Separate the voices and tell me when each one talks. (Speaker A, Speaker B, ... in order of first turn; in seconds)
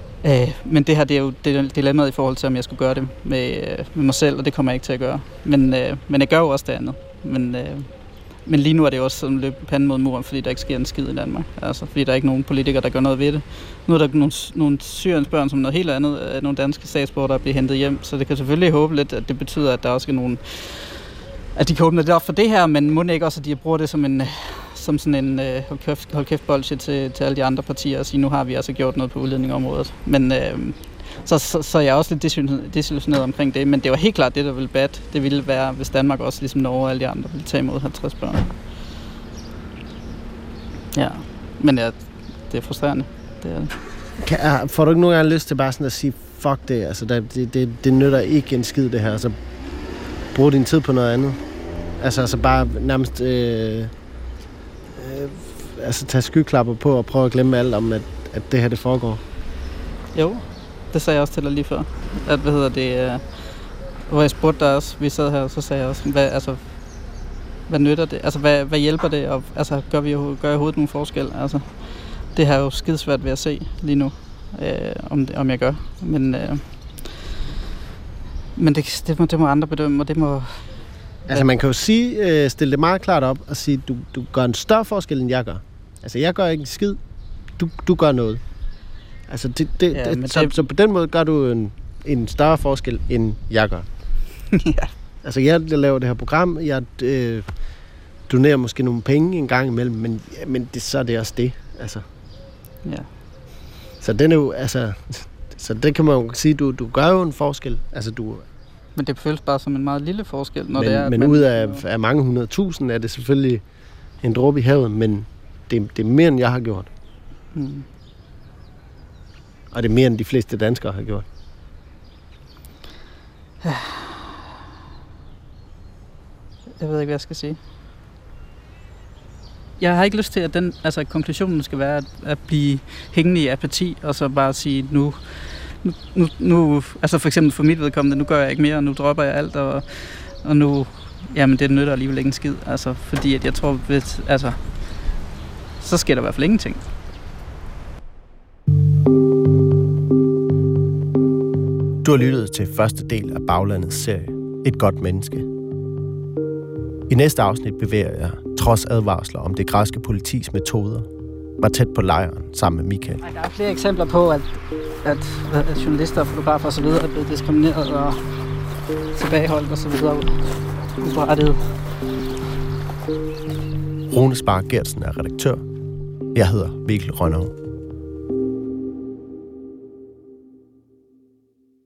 Speaker A: 0.2-7.9, 8.4-21.0, 21.5-38.5, 40.9-43.8, 60.1-63.5, 64.1-66.8, 67.7-77.1, 78.5-80.7, 89.9-90.6, 94.5-94.9, 109.0-111.8, 117.5-117.9, 123.6-124.2, 126.8-127.6, 129.8-144.9, 145.8-146.8, 163.2-168.4, 169.1-171.6
Speaker B: 44.2-49.4, 50.3-51.4, 52.0-53.9, 54.9-59.2, 81.3-87.0, 87.6-88.4, 89.3-93.9, 95.2-97.5, 98.3-102.0, 104.0-108.5, 110.8-113.6, 114.2-116.9, 119.7-121.2
Speaker C: 152.0-155.5, 157.1-161.1, 161.6-163.2, 174.1-175.6, 176.3-177.5